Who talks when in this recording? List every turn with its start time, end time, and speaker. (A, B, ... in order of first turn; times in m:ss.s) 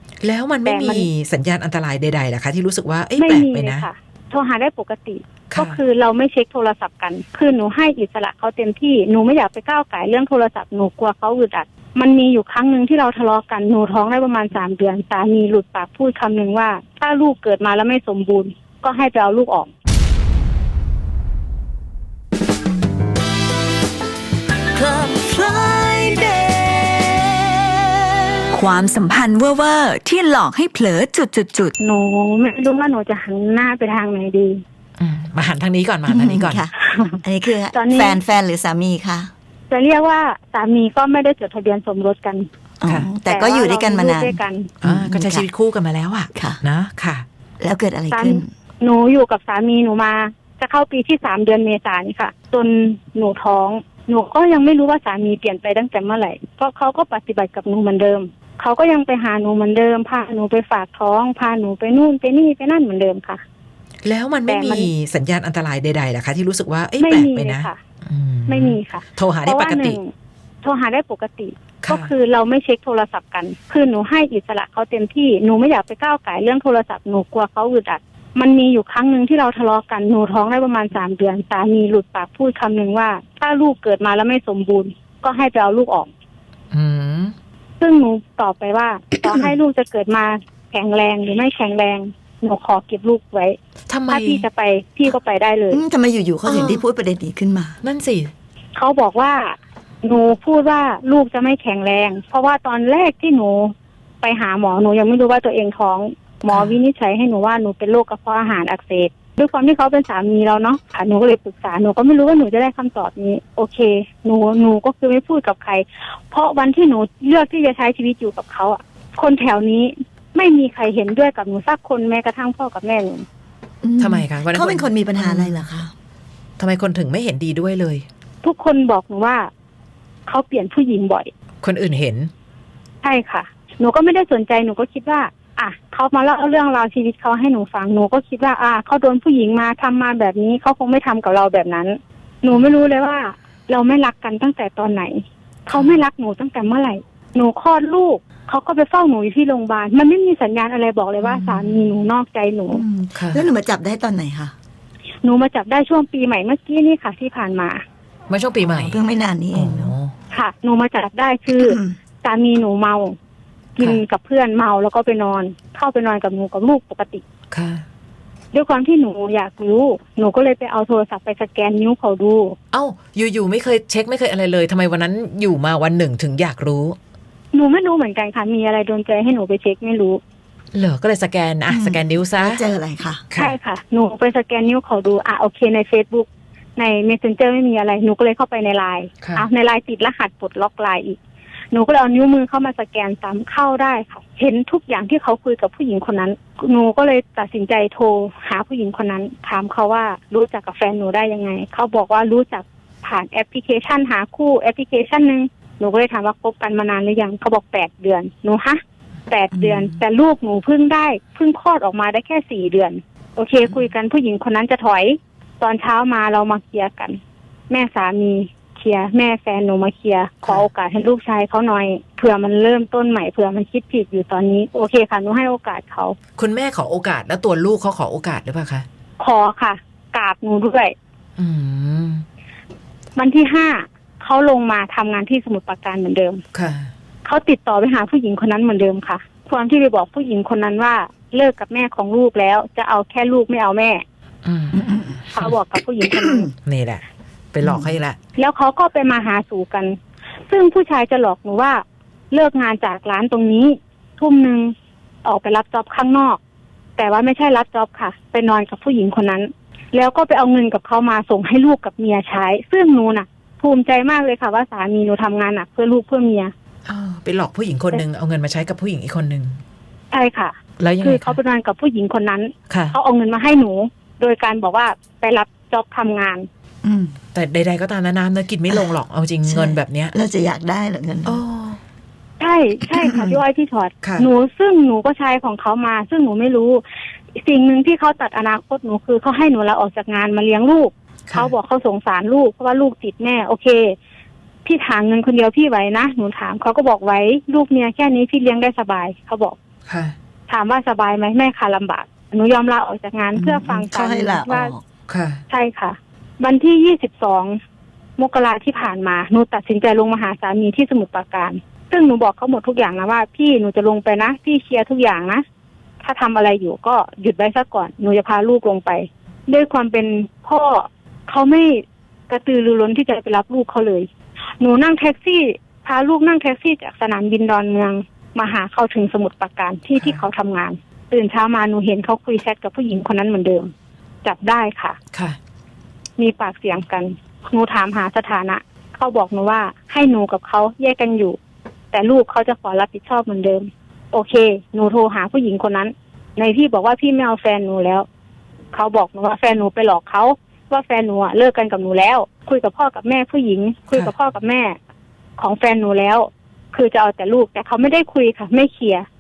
0:00.2-0:03.9 A
0:00.7-0:01.1 B
0:03.2-0:19.7 B
0:05.5-0:05.8 A
0:24.8-0:27.5 C
0:28.5-0:31.7 C
0:31.8-0:34.6 B
0:35.0-0:36.7 A
0:36.1-0:39.3 D
0:36.8-0:37.2 B
0:37.7-0:38.2 B
0:39.7-0:42.5 B
0:42.8-0:45.5 D
0:43.2-0:44.7 B
0:44.8-0:47.2 A
0:46.3-0:46.6 D
0:47.6-0:48.5 D
0:48.1-1:03.4 B
1:04.0-1:10.0 A
1:04.5-1:04.9 B
1:07.0-1:07.8 B
1:08.5-1:10.1 B
1:10.6-1:26.1 B
1:11.8-1:12.1 A
1:26.7-1:27.3 A
1:27.8-1:33.6 B
1:29.3-1:29.5 D
1:33.9-1:34.5 A
1:34.1-1:35.8 B
1:35.7-1:37.8 D
1:36.5-1:36.8 A
1:37.8-1:38.3 A
1:38.8-2:03.2 B
1:46.5-1:46.8 A
2:03.8-2:05.9 D
2:04.0-2:05.6 A
2:06.6-2:08.1 A
2:08.4-2:09.5 B
2:10.3-2:11.3 B
2:11.6-2:12.3 A
2:13.0-2:32.8 B
2:25.7-2:26.0 A
2:31.2-2:32.0 A
2:32.7-2:34.5 D
2:33.2-2:33.5 A
2:35.2-2:37.8 B
2:38.3-2:39.0 A
2:38.7-2:39.9 D
2:39.5-2:40.1 A
2:40.3-2:43.2 B
2:41.5-2:42.0 D
2:43.8-2:47.2 B
2:47.5-2:47.8 A
2:48.5-2:52.6 B
2:52.7-2:57.0 A
2:57.5-3:00.2 B
3:00.7-3:02.6 A
3:01.7-3:03.2 D
3:03.3-3:03.6 A
3:03.4-3:11.2 B
3:11.7-3:37.2 B
3:29.5-3:30.0 D
3:37.7-3:46.2 B
3:46.4-3:48.9 A
3:49.2-3:50.9 B
3:51.4-3:52.2 A
3:53.2-3:56.4 B
3:56.5-3:56.9 A
3:57.2-4:04.0 B
4:04.4-4:05.6 A
4:05.3-4:06.5 B
4:06.6-4:08.2 A
4:07.6-4:07.9 D
4:08.4-4:10.0 B
4:10.5-4:14.7 B
4:15.2-4:16.4 B
4:17.0-4:26.5 B
4:26.9-4:29.6 A
4:30.1-4:36.5 B
4:30.8-4:31.4 A
4:32.7-4:33.0 A
4:36.8-4:37.2 D
4:37.3-4:40.1 A
4:39.5-4:41.4 D
4:41.2-4:41.8 A
4:42.4-4:46.8 B
4:42.9-4:43.4 D
4:44.0-4:44.3 A
4:47.4-4:54.0 B
4:51.3-4:51.5 A
4:54.6-4:59.6 B
4:59.9-5:00.2 A
5:00.5-5:04.7 B
5:03.4-5:04.8 D
5:05.1-5:05.4 A
5:05.5-5:07.6 B
5:08.2-5:15.4 B
5:16.0-5:24.1 B
5:24.6-5:33.7 B
5:34.2-5:35.0 B
5:36.2-5:41.4 B
5:41.9-5:48.1 B
5:48.7-5:54.8 B
5:55.4-5:59.1 B